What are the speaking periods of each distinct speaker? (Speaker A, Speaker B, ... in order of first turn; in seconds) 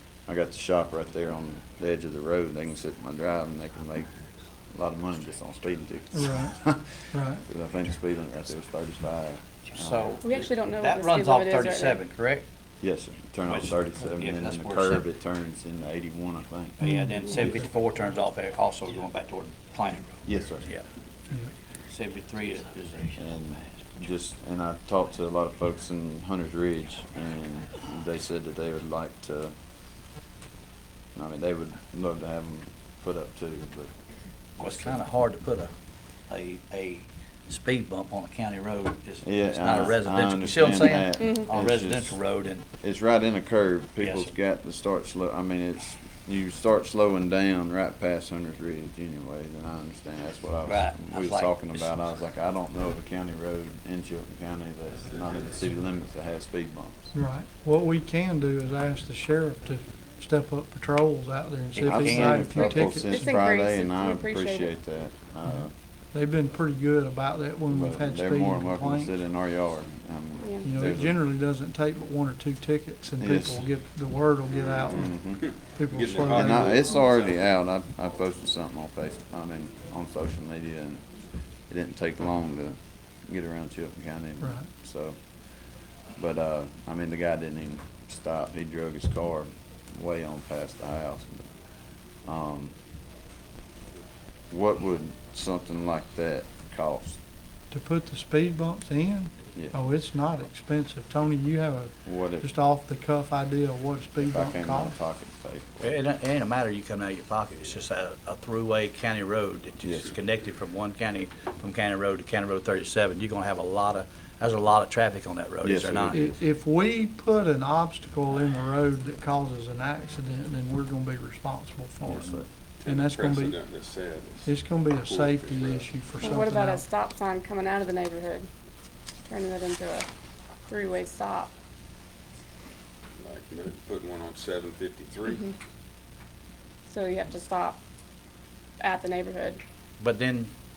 Speaker A: 0.3-4.1, 4.7-10.2, 12.8-16.8, 20.2-20.7, 23.2-29.5, 31.2-33.9, 34.6-35.0, 39.2-42.2, 42.8-57.1, 61.8-65.7, 67.7-71.2, 73.2-73.7, 74.9-75.4, 76.3-81.0, 81.7-85.2, 86.2-91.5, 92.3-92.7, 94.5-97.2, 102.1-102.5, 104.2-105.9, 109.8-110.2, 115.6-116.4, 122.0-122.5
Speaker B: 6.1-6.5, 7.1-7.4, 16.8-17.6, 57.1-63.3, 66.1-69.1, 70.6-75.2, 75.8-76.8, 84.4-84.7, 97.7-104.9, 116.1-123.6, 124.5-126.9
Speaker C: 9.7-12.4, 13.4-15.1, 16.8-20.9, 21.9-23.2, 34.6-35.7, 36.3-42.6, 44.0-44.3, 50.6-52.0, 61.8-63.0, 105.8-116.3, 140.0-140.5
Speaker D: 10.2-12.0, 63.1-64.7, 126.2-128.5, 129.3-130.1, 130.7-131.5, 135.3-135.5, 136.9-137.8, 138.8-139.6
Speaker E: 74.6-77.4, 122.8-125.9, 133.2-135.5